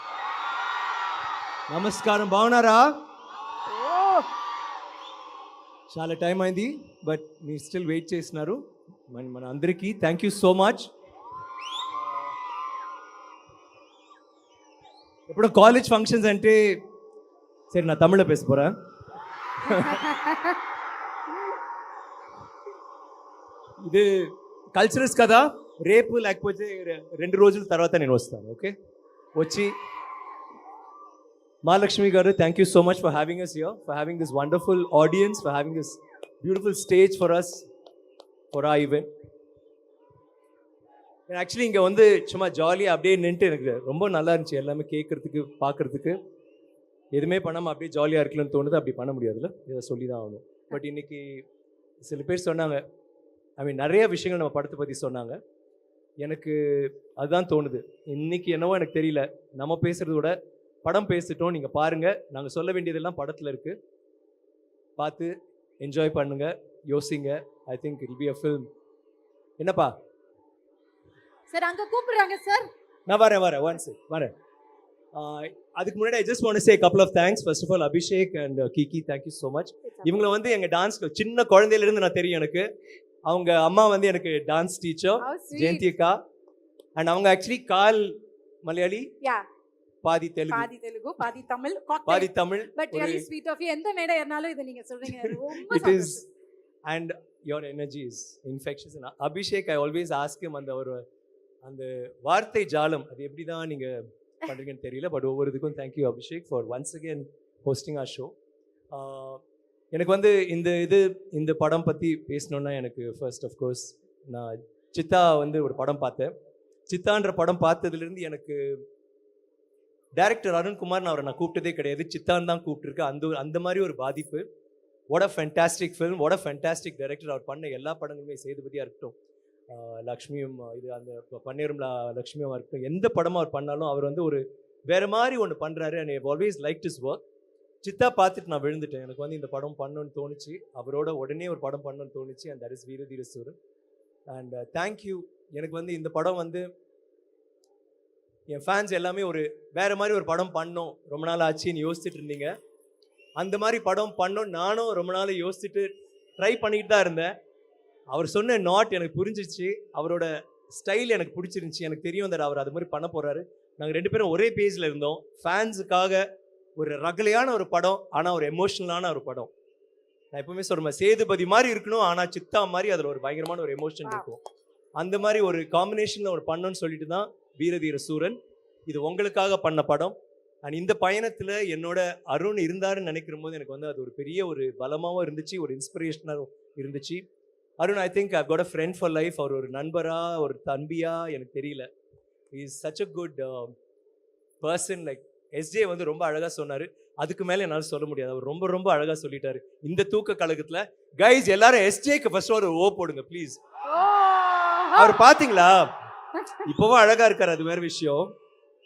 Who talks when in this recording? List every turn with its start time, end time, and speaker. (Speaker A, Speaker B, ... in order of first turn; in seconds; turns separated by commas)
Speaker A: 1.7-2.9, Speaker B: 3.8-4.2, Speaker A: 5.9-8.6, Speaker A: 9.1-10.9, Speaker A: 15.3-16.8, Speaker A: 17.7-18.7, Speaker A: 19.6-20.2, Speaker A: 23.8-28.7, Speaker A: 29.4-29.7, Speaker A: 31.6-37.7, Speaker A: 38.5-39.1, Speaker A: 41.3-46.2, Speaker A: 47.1-51.4, Speaker A: 52.0-52.8, Speaker A: 53.6-55.4, Speaker A: 56.2-63.8, Speaker A: 65.0-68.7, Speaker A: 69.6-69.9, Speaker B: 71.5-72.7, Speaker A: 73.1-74.3, Speaker A: 75.2-82.7, Speaker B: 79.9-80.4, Speaker A: 83.3-86.2, Speaker B: 85.2-85.9, Speaker A: 87.0-89.1, Speaker A: 90.0-90.7, Speaker B: 90.5-96.2, Speaker A: 92.0-93.3, Speaker A: 95.1-96.2, Speaker A: 96.9-101.0, Speaker A: 101.6-108.3, Speaker A: 108.9-109.4, Speaker A: 110.0-116.3, Speaker A: 116.9-118.8, Speaker A: 120.2-124.5, Speaker A: 125.1-129.1, Speaker A: 129.7-137.2, Speaker A: 137.8-143.6, Speaker A: 144.3-146.7, Speaker A: 148.5-152.5, Speaker A: 153.4-157.3, Speaker A: 158.1-166.2, Speaker A: 166.8-169.5, Speaker A: 170.3-174.4, Speaker A: 175.0-187.2, Speaker A: 187.8-191.9, Speaker A: 192.5-193.7, Speaker A: 194.6-203.6, Speaker B: 203.9-205.2, Speaker A: 204.9-205.9, Speaker A: 206.6-208.3